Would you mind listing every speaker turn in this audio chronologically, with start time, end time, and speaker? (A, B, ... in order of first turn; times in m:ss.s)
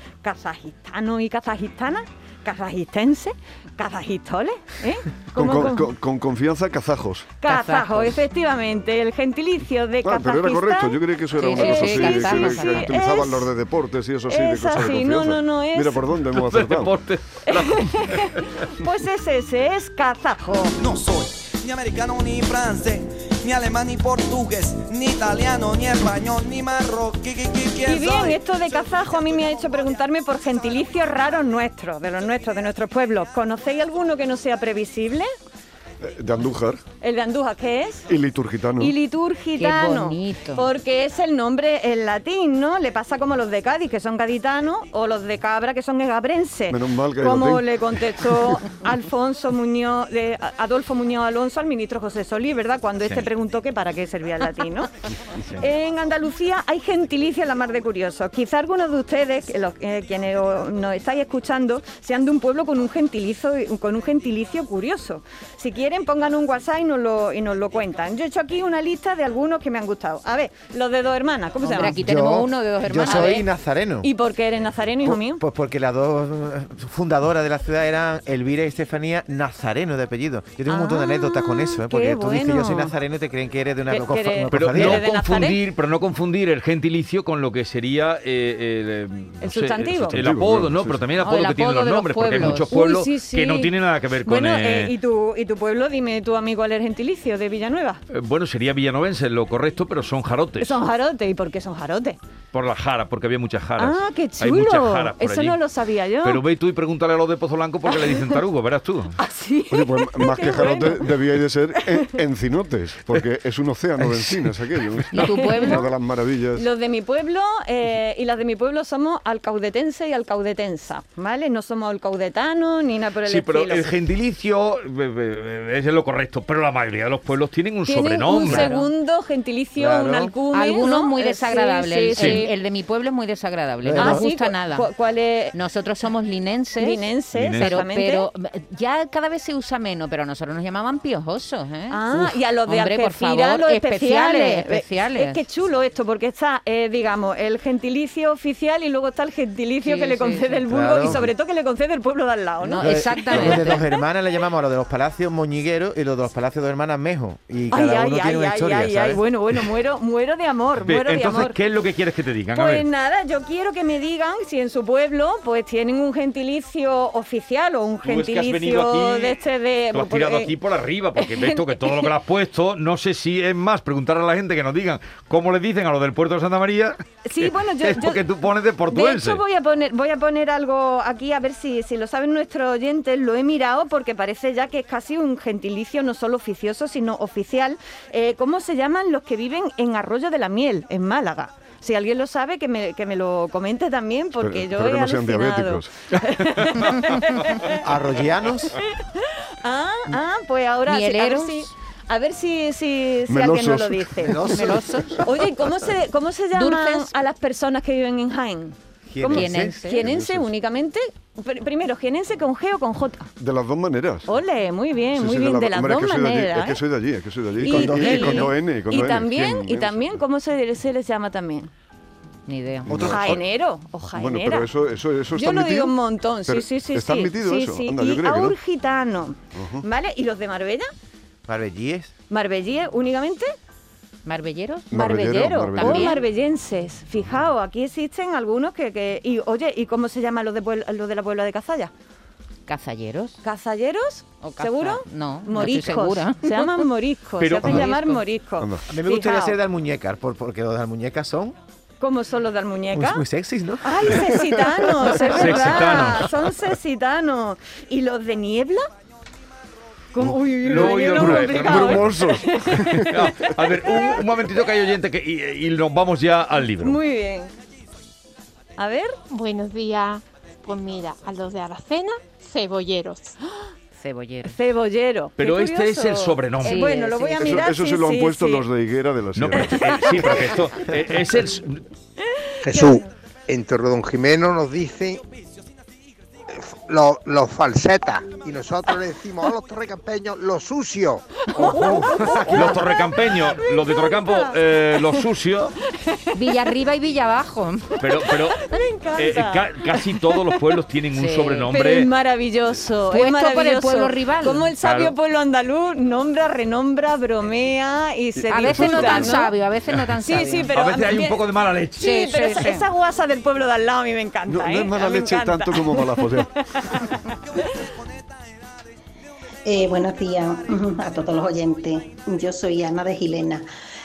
0:00.2-0:05.9 A
0:05.3-0:07.4 B
0:07.4-0:13.5 A
0:07.5-0:08.2 C
0:10.0-0:16.9 B
0:11.4-0:12.9 C
0:14.3-0:16.0 A
0:16.3-0:18.5 D
0:17.5-0:20.7 A
0:20.8-0:28.3 E
0:27.8-0:35.3 A
0:36.0-0:36.8 B
0:37.0-0:38.1 A
0:38.1-0:39.0 B
0:38.8-0:54.9 A
0:39.6-0:40.7 C
0:46.7-0:47.7 B
0:55.6-1:12.0 A
1:11.6-1:14.1 F
1:11.8-1:13.5 C
1:13.0-1:13.4 A
1:14.0-1:15.4 A
1:15.0-1:25.1 F
1:20.7-1:23.0 A
1:23.9-1:25.6 A
1:24.5-1:34.9 D
1:29.4-1:30.2 A
1:30.1-1:31.2 B
1:31.2-1:32.7 C
1:32.6-1:33.7 A
1:34.2-1:38.0 A
1:38.1-1:40.8 D
1:40.6-1:42.2 A
1:42.5-1:45.6 D
1:43.8-1:46.4 A
1:46.2-1:49.2 D
1:47.9-1:48.4 A
1:49.2-1:51.1 A
1:49.7-1:56.7 B
1:54.0-1:55.0 D
1:55.1-1:55.9 C
1:55.2-1:55.9 A
1:56.6-2:03.9 A
2:03.2-2:08.8 D
2:07.9-2:12.5 A
2:08.4-2:08.9 C
2:09.8-2:10.4 F
2:10.5-2:14.9 C
2:12.2-2:12.4 D
2:13.8-2:14.2 F
2:14.0-2:15.6 A
2:15.5-2:17.1 C
2:16.8-2:18.3 A
2:17.4-2:17.8 D
2:17.6-2:25.5 C
2:21.9-2:33.9 A
2:29.8-2:31.2 C
2:30.7-2:31.3 F
2:32.6-2:33.8 C
2:32.8-2:39.2 F
2:37.7-2:41.6 A
2:40.8-2:42.8 D
2:42.5-2:50.5 A
2:48.0-2:59.4 D
2:51.2-2:52.1 A
2:57.2-2:58.2 A
2:58.9-3:17.9 A
3:14.4-3:15.9 B
3:17.8-3:18.8 F
3:19.2-3:33.3 A
3:20.9-3:21.7 C
3:23.3-3:24.6 B
3:24.2-3:24.8 F
3:24.6-3:25.2 C
3:26.5-3:27.1 C
3:29.1-3:30.2 F
3:29.3-3:30.1 C
3:30.1-3:30.4 B
3:33.4-3:34.3 B
3:34.3-3:36.8 A
3:35.2-3:40.1 B
3:37.6-3:41.7 A
3:37.6-3:38.5 F
3:42.5-3:43.0 C
3:42.8-3:43.5 B
3:42.9-3:43.2 F
3:43.1-3:44.7 A
3:44.1-3:48.6 B
3:45.3-3:50.9 A
3:49.6-3:49.8 B
3:51.5-3:52.1 F
3:52.3-3:53.5 A
3:54.2-3:56.2 C
3:54.9-3:56.2 B
3:54.9-4:01.9 A
4:02.7-4:03.4 C
4:03.4-4:09.6 A
4:04.4-4:06.8 C
4:07.4-4:07.8 D
4:07.6-4:07.9 B
4:07.7-4:08.3 C
4:08.6-4:08.9 B
4:08.9-4:11.6 F
4:12.0-4:13.2 A
4:12.9-4:16.0 F
4:13.8-4:18.8 A
4:15.3-4:16.3 D
4:20.1-4:24.2 A
4:20.2-4:23.4 B
4:20.6-4:22.2 D
4:23.1-4:27.0 D
4:26.8-4:27.5 A
4:28.8-4:29.2 A
4:29.3-4:33.3 G
4:34.0-4:34.6 C
4:34.4-4:38.6 A
4:35.4-4:36.8 D
4:36.6-4:37.4 C
4:37.4-4:40.4 B
4:39.4-4:41.8 D
4:39.6-4:40.6 A
4:42.3-4:43.1 A
4:42.6-4:45.2 H
4:46.5-4:52.0 H
4:51.5-4:55.2 A
4:52.4-4:55.8 D
4:55.9-4:56.7 A
4:56.3-4:58.0 C
4:58.0-5:02.1 D
4:58.0-5:00.6 A
5:01.1-5:01.7 C
5:01.7-5:09.5 A
5:03.1-5:04.7 C
5:04.8-5:05.1 D
5:08.4-5:09.4 B
5:08.5-5:10.7 C
5:10.2-5:11.4 A
5:10.7-5:12.1 D
5:12.0-5:12.9 C
5:12.0-5:17.1 A
5:14.5-5:16.5 B
5:19.7-5:23.6 I